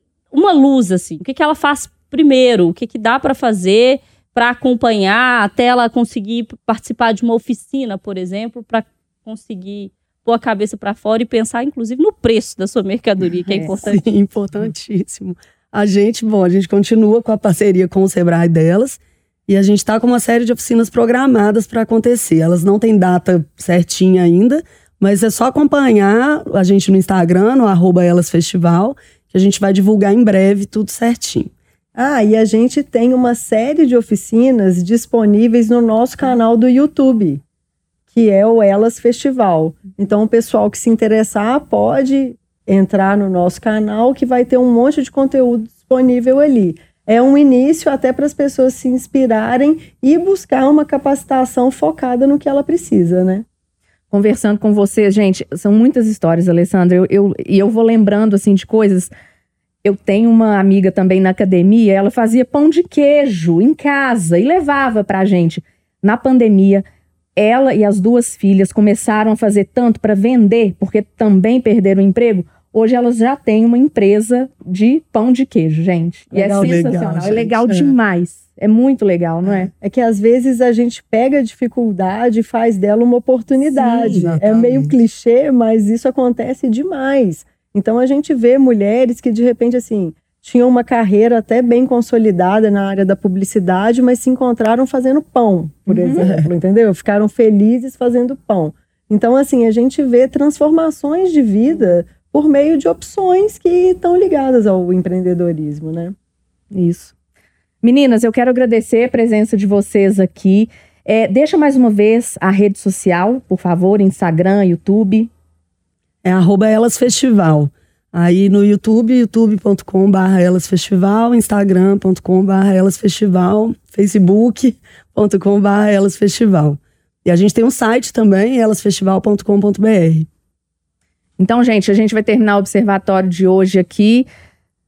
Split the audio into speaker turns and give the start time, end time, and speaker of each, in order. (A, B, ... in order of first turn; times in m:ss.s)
0:00.3-0:14.0 A
0:13.8-0:31.5 B
0:32.0-0:37.4 C
0:38.1-0:53.4 C
0:54.1-0:59.1 D
0:59.8-1:06.8 D
1:07.4-1:19.7 D
1:16.3-1:17.3 C
1:16.6-1:18.0 B
1:19.8-1:46.1 C
1:23.6-1:24.2 D
1:24.0-1:24.9 B
1:35.9-1:36.2 D
1:36.2-1:36.5 B
1:46.7-1:47.1 D
1:47.8-1:55.3 D
1:56.2-2:10.3 B
2:11.4-2:14.3 D